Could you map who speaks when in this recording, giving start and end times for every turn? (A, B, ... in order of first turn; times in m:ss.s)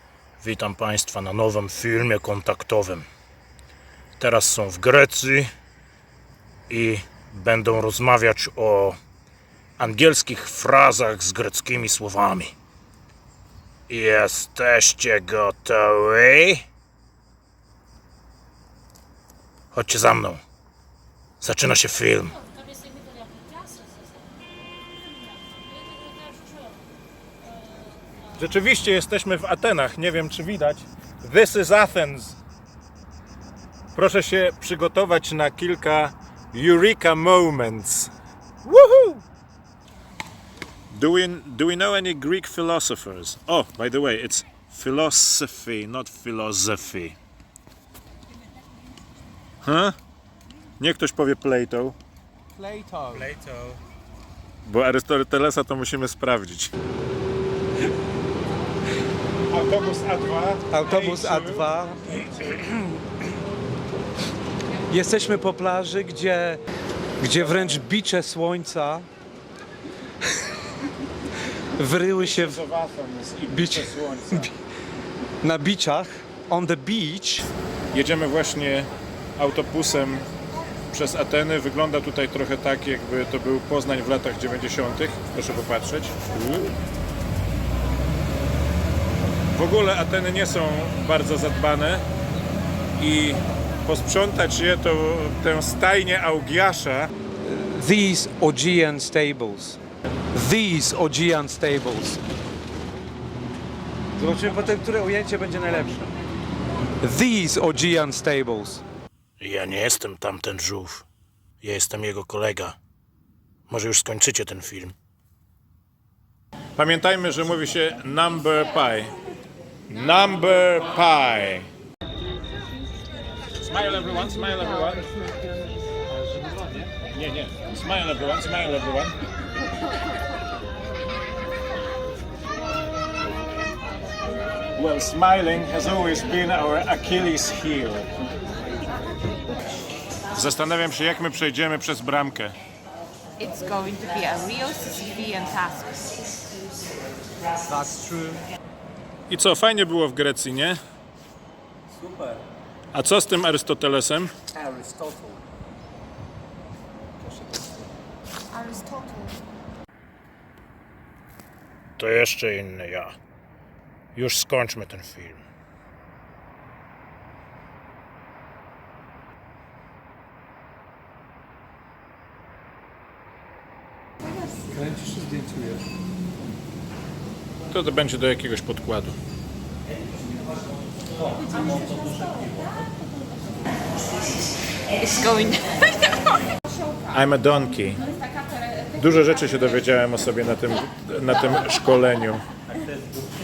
0:00.4-0:03.0 A
0:04.2-0:05.5 A
0:06.7-0:09.0 A
0:09.8-0:12.5 A
0:13.9-0:16.6 A
0:19.7-0:20.4 A
0:21.4-0:22.4 A
0:28.4-0:32.4 B
0:33.9-0:38.1 B
0:38.6-0:39.2 B
0:40.9-0:47.1 B
0:49.6-0:50.0 B
0:50.8-0:52.0 B
0:52.5-0:53.3 C
0:53.4-0:53.8 B
0:54.6-0:56.7 B
0:59.5-1:01.6 B
1:00.7-1:02.8 C
1:04.9-1:06.6 C
1:07.2-1:09.1 C
1:07.3-1:07.8 B
1:11.8-1:12.6 C
1:12.1-1:14.5 B
1:13.5-1:14.6 C
1:15.4-1:17.5 C
1:17.9-1:20.3 B
1:20.9-1:26.7 B
1:29.5-1:32.1 B
1:33.0-1:37.1 B
1:37.4-1:39.8 C
1:40.3-1:42.2 C
1:44.2-1:46.1 C
1:47.0-1:48.8 C
1:49.4-1:51.0 A
1:51.6-1:52.8 A
1:53.7-1:54.9 A
1:56.8-1:59.1 B
1:59.9-2:01.7 B
2:03.6-2:05.1 B
2:06.4-2:09.2 B
2:14.8-2:18.1 B
2:20.3-2:22.6 B
2:23.4-2:26.2 D
2:27.7-2:28.4 C
2:29.3-2:30.8 B
2:32.9-2:34.3 B
2:34.5-2:35.4 C
2:37.2-2:37.8 C
2:38.5-2:39.4 D
2:42.0-2:43.2 A
2:44.1-2:45.4 A
2:54.7-2:55.8 C
2:57.7-2:59.2 B
3:05.0-3:05.8 D
3:07.1-3:08.0 B
3:08.9-3:12.4 B